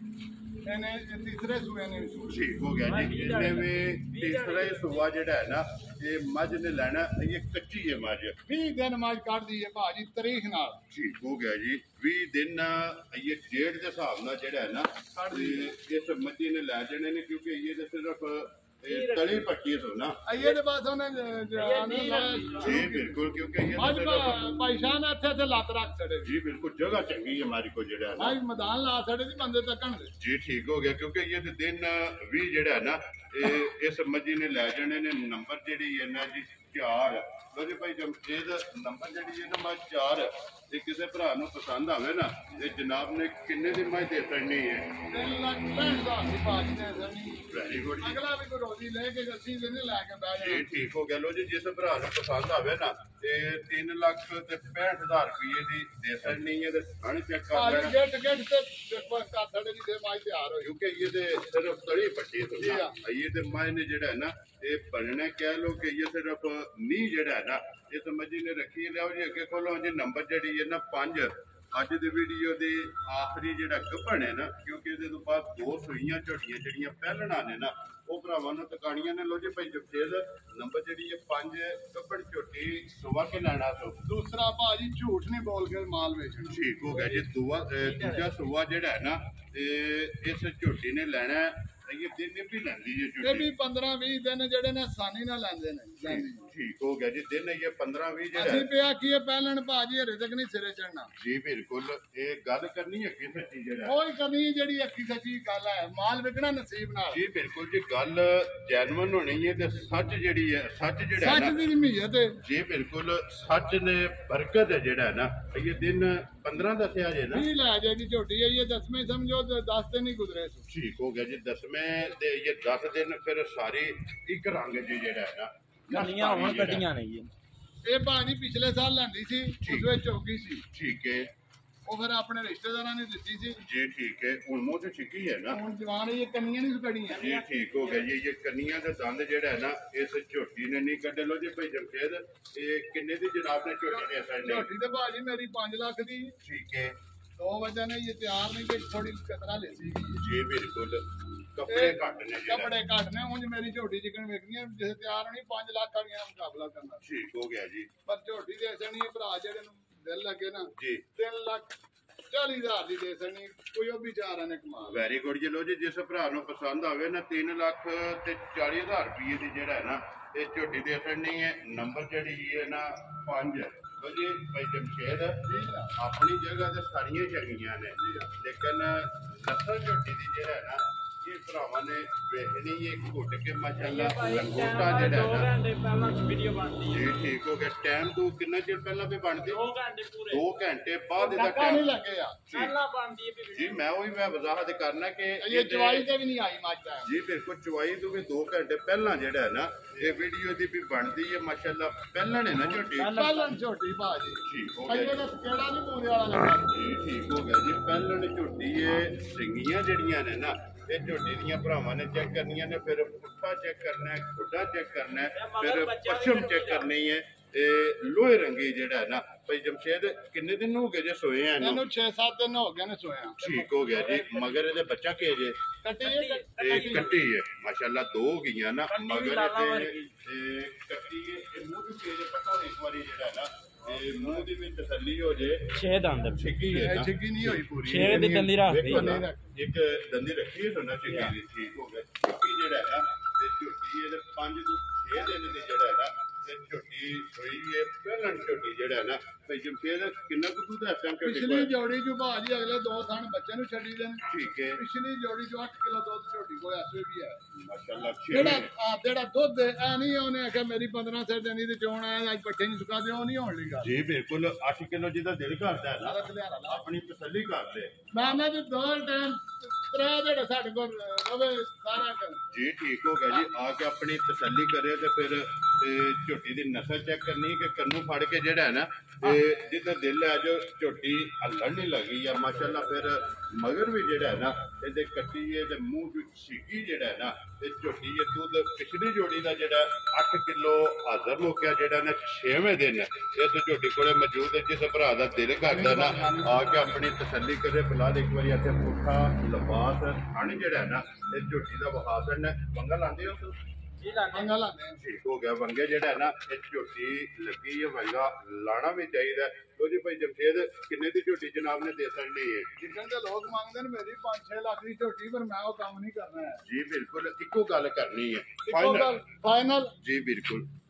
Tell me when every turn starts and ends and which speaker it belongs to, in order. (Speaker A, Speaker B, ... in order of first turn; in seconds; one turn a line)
Speaker A: 0.6-2.4
Speaker B: 2.3-8.3
Speaker C: 2.8-5.1
Speaker A: 8.4-10.8
Speaker B: 10.9-20.2
Speaker A: 15.1-15.7
Speaker C: 18.9-19.4
Speaker A: 20.2-26.3
Speaker C: 21.6-22.8
Speaker B: 22.6-24.4
Speaker B: 26.2-28.4
Speaker A: 28.2-30.1
Speaker B: 30.2-44.9
Speaker A: 45.1-47.5
Speaker B: 47.5-48.2
Speaker A: 48.0-50.7
Speaker B: 50.4-58.0
Speaker A: 57.5-60.7
Speaker B: 60.6-84.0
Speaker A: 62.6-63.0
Speaker A: 84.0-86.6
Speaker B: 86.5-93.5
Speaker C: 86.9-87.2
Speaker C: 87.8-88.3
Speaker A: 93.2-96.5
Speaker B: 96.0-98.7
Speaker A: 98.3-101.1
Speaker B: 101.2-104.0
Speaker A: 103.8-107.2
Speaker B: 107.1-111.6
Speaker A: 111.1-112.4
Speaker B: 112.4-117.5
Speaker A: 117.3-120.7
Speaker B: 120.7-126.9
Speaker C: 125.9-127.3
Speaker A: 127.8-130.6
Speaker B: 129.6-129.9
Speaker B: 130.7-131.3
Speaker A: 131.8-133.6
Speaker B: 133.6-135.6
Speaker A: 135.5-137.3
Speaker C: 137.1-138.1
Speaker B: 137.1-144.7
Speaker A: 143.9-146.3
Speaker B: 146.4-146.9
Speaker A: 147.4-150.2
Speaker B: 150.2-152.7
Speaker A: 151.7-157.0
Speaker B: 157.0-157.9
Speaker A: 158.1-161.7
Speaker B: 160.8-161.0
Speaker A: 162.3-165.0
Speaker B: 164.9-185.5
Speaker A: 175.4-175.9
Speaker A: 178.0-178.3
Speaker C: 183.8-187.1
Speaker B: 186.9-189.6
Speaker C: 189.4-190.5
Speaker B: 190.3-191.9
Speaker A: 191.2-192.4
Speaker B: 192.5-192.8
Speaker C: 192.5-193.8
Speaker B: 193.5-196.1
Speaker A: 195.4-197.2
Speaker B: 197.0-203.2
Speaker C: 202.9-203.6
Speaker A: 203.1-206.8
Speaker B: 204.4-205.2
Speaker B: 206.7-221.8
Speaker C: 215.3-216.9
Speaker A: 221.6-223.4
Speaker B: 223.4-225.6
Speaker C: 223.5-224.6
Speaker A: 225.8-227.1
Speaker C: 226.0-227.2
Speaker B: 226.6-235.7
Speaker C: 228.9-230.1
Speaker C: 235.7-236.5
Speaker B: 236.3-251.7
Speaker A: 236.7-239.6
Speaker C: 237.8-239.2
Speaker C: 241.1-241.3
Speaker A: 251.2-257.4
Speaker B: 254.3-254.8
Speaker B: 257.5-258.7
Speaker A: 258.3-263.9
Speaker B: 263.8-267.9
Speaker A: 266.0-266.8
Speaker A: 268.1-272.4
Speaker B: 272.5-303.5
Speaker A: 295.6-297.0
Speaker C: 304.0-304.6
Speaker A: 304.3-305.0
Speaker B: 304.9-312.7
Speaker A: 312.8-316.6
Speaker B: 316.6-319.2
Speaker A: 318.6-319.9
Speaker B: 320.0-320.7